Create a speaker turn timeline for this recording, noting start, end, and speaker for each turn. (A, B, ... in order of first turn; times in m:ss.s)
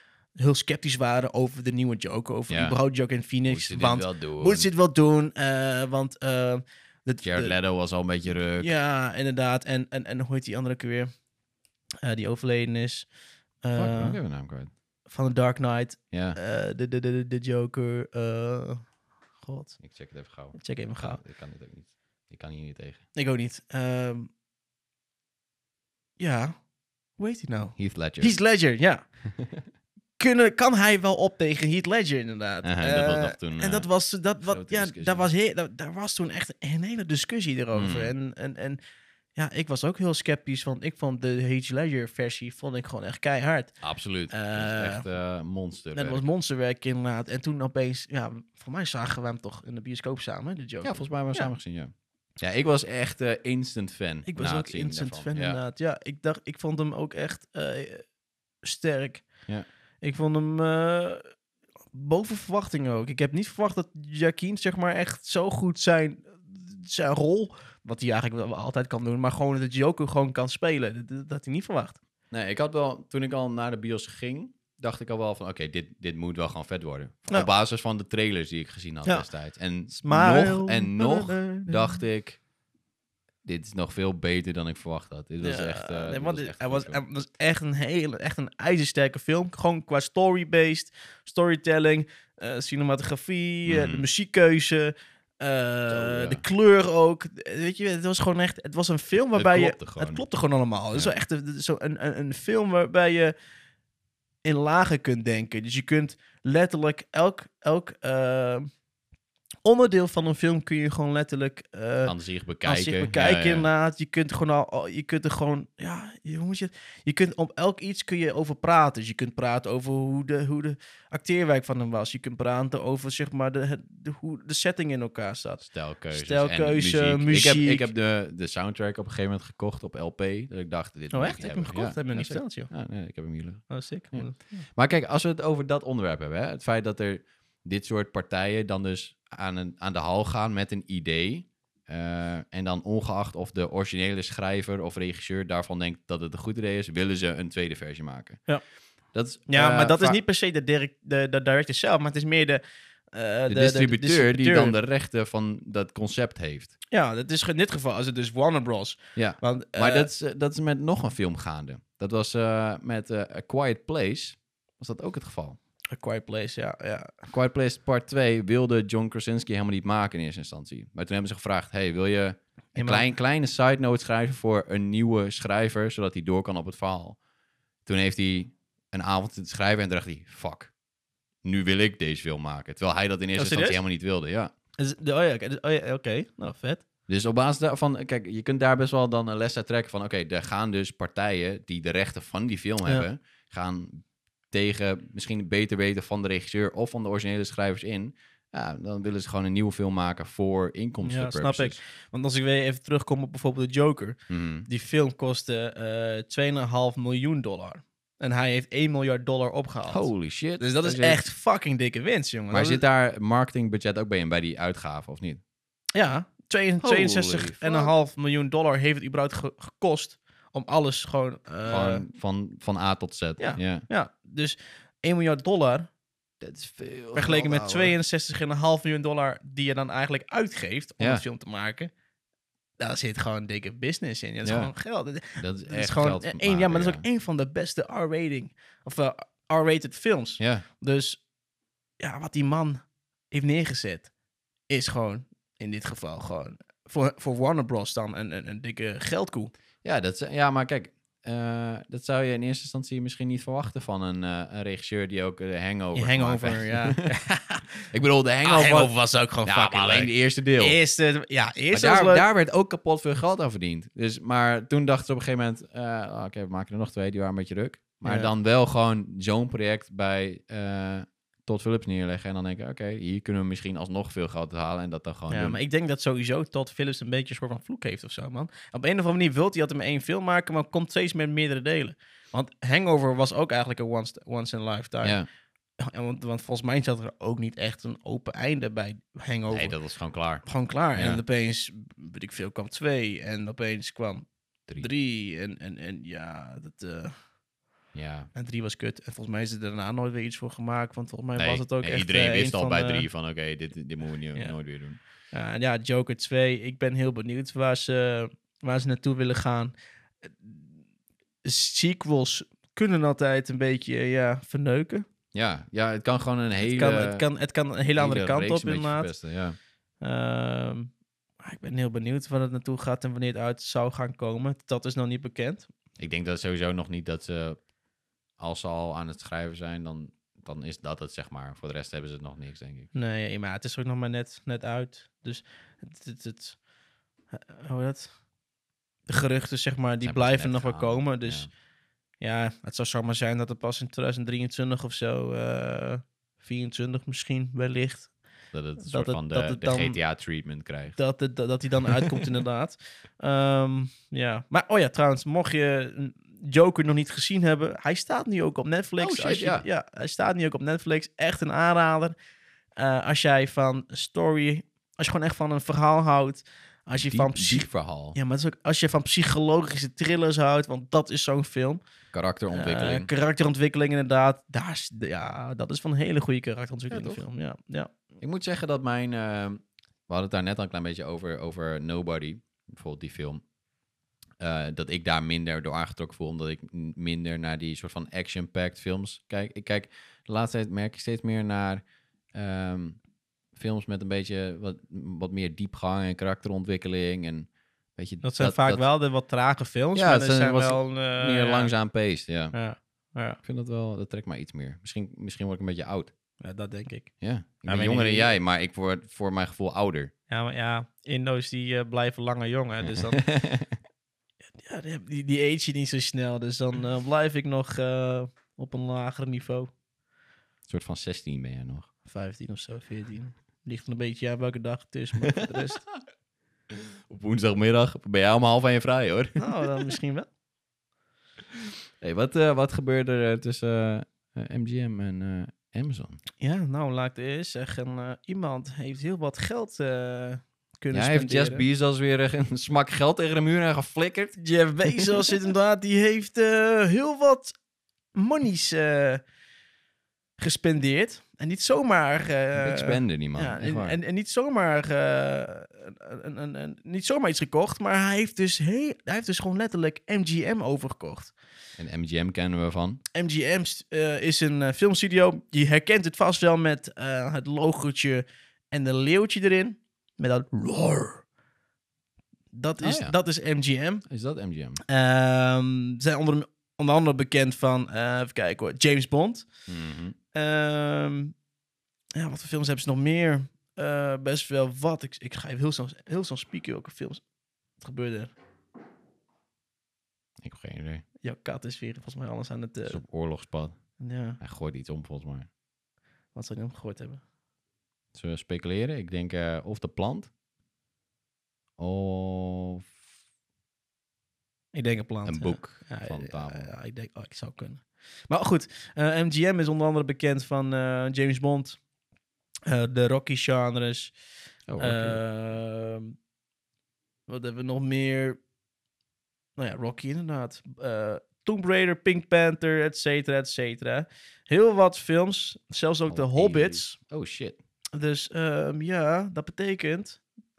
0:00.4-0:07.5 A
0:02.5-0:02.8 B
0:03.5-0:04.7 B
0:07.2-0:08.7 B
0:08.6-0:11.1 A
0:12.0-0:13.1 A
0:13.6-0:14.2 A
0:13.7-0:14.7 B
0:15.1-0:18.8 A
0:16.1-0:16.4 B
0:19.4-0:19.8 A
0:19.8-0:23.0 B
0:20.5-0:21.2 A
0:23.1-0:24.3 A
0:26.2-0:26.6 A
0:27.2-0:29.0 A
0:27.8-0:28.3 B
0:29.4-0:29.6 B
0:30.2-0:38.8 A
0:32.6-0:33.9 B
0:34.4-0:35.3 B
0:37.7-0:38.1 B
0:39.4-0:43.7 A
0:43.8-0:46.2 B
0:44.3-0:45.0 A
0:45.9-0:51.5 A
0:50.8-0:55.6 B
0:54.2-0:58.1 A
0:58.6-0:59.3 A
1:00.0-1:01.2 A
1:01.9-1:12.0 A
1:12.3-1:22.4 B
1:19.9-1:22.0 A
1:23.4-1:27.0 B
1:25.4-1:43.3 A
1:33.6-1:34.1 B
1:35.9-1:36.4 B
1:39.3-1:40.2 B
1:44.4-1:48.7 A
1:49.6-2:07.9 A
1:52.0-1:53.7 B
2:05.6-2:28.4 B
2:11.1-2:12.7 A
2:13.7-2:14.6 A
2:29.1-2:30.2 B
2:29.5-2:32.6 A
2:33.1-2:34.8 A
2:33.5-2:36.7 B
2:36.9-2:40.1 A
2:39.2-2:45.6 B
2:45.9-2:47.1 A
2:47.3-2:57.2 B
2:52.8-2:53.1 A
2:57.8-3:00.7 B
3:01.4-3:04.5 B
3:03.4-3:03.8 A
3:04.8-3:06.8 A
3:07.1-3:21.8 B
3:21.0-3:32.8 A
3:24.3-3:24.7 B
3:29.9-3:31.2 B
3:32.5-3:35.4 B
3:35.9-3:42.0 A
3:36.8-3:37.9 B
3:41.6-3:43.8 B
3:43.4-3:45.9 A
3:46.4-3:47.9 B
3:47.1-3:51.9 A
3:52.8-4:01.2 A
3:54.4-3:54.7 B
3:55.4-3:57.0 B
4:00.4-4:00.6 B
4:02.0-4:04.1 A
4:04.7-4:09.5 A
4:09.8-4:17.0 B
4:15.9-4:17.9 A
4:17.9-4:18.9 B
4:18.4-4:22.2 A
4:19.4-4:20.8 B
4:21.7-4:35.6 B
4:28.0-4:28.3 A
4:35.3-4:45.2 A
4:45.8-4:49.8 A
4:49.5-4:51.2 B
4:50.4-4:57.1 A
4:57.9-4:58.3 B
4:58.3-5:03.1 A
5:01.4-5:05.0 B
5:05.3-5:09.7 A
5:10.2-5:10.6 A
5:11.4-5:15.0 A
5:15.3-5:17.2 B
5:16.6-5:19.1 A
5:17.9-5:19.6 B
5:20.0-5:25.7 A
5:26.0-5:27.6 B
5:28.4-5:32.9 B
5:32.9-5:36.6 A
5:37.3-5:38.1 A
5:39.1-5:41.5 A
5:40.0-5:41.5 B
5:42.2-5:48.1 A
5:48.5-5:51.0 B
5:48.8-5:50.0 A
5:51.0-6:02.1 A
5:59.0-5:59.6 B
6:02.8-6:11.8 A
6:07.0-6:08.2 B
6:12.1-6:13.1 B
6:12.5-6:17.9 A
6:16.9-6:17.2 B
6:18.2-6:23.4 B
6:24.4-6:33.0 B
6:33.5-6:38.8 B
6:38.2-6:41.7 A
6:39.9-6:42.5 B
6:42.5-6:43.4 A
6:43.4-6:46.1 B
6:46.4-6:47.1 A
6:47.2-6:50.1 B
6:47.7-6:48.3 A
6:50.3-6:53.3 A
6:52.8-6:53.8 B
6:54.6-6:59.7 A
7:00.7-7:01.9 B
7:02.1-7:05.8 A
7:06.7-7:09.9 B
7:09.4-7:10.3 A
7:11.6-7:16.2 B
7:16.4-7:21.6 A
7:20.9-7:24.4 B
7:24.4-7:27.5 A
7:28.1-7:29.2 A
7:30.4-7:41.3 A
7:32.6-7:34.0 B
7:41.8-7:43.0 B
7:43.1-7:51.2 A
7:52.5-7:54.0 A
7:52.8-7:53.1 B
7:54.1-7:54.8 B
7:54.8-7:59.5 A
7:59.7-8:00.1 B
8:00.3-8:01.3 A
8:02.2-8:07.2 A
8:07.8-8:08.3 A
8:10.4-8:11.0 B
8:11.2-8:13.0 A
8:12.9-8:13.8 B
8:14.0-8:14.4 A
8:14.4-8:15.5 B
8:16.4-8:17.2 A
8:18.1-8:20.3 B
8:21.8-8:22.9 B
8:24.7-8:31.8 A
8:25.2-8:26.7 B
8:32.7-8:34.1 A
8:34.7-8:35.2 B
8:34.8-8:36.2 A
8:37.3-8:38.4 A
8:39.6-8:47.0 A
8:46.1-8:47.6 B
8:47.9-8:50.2 A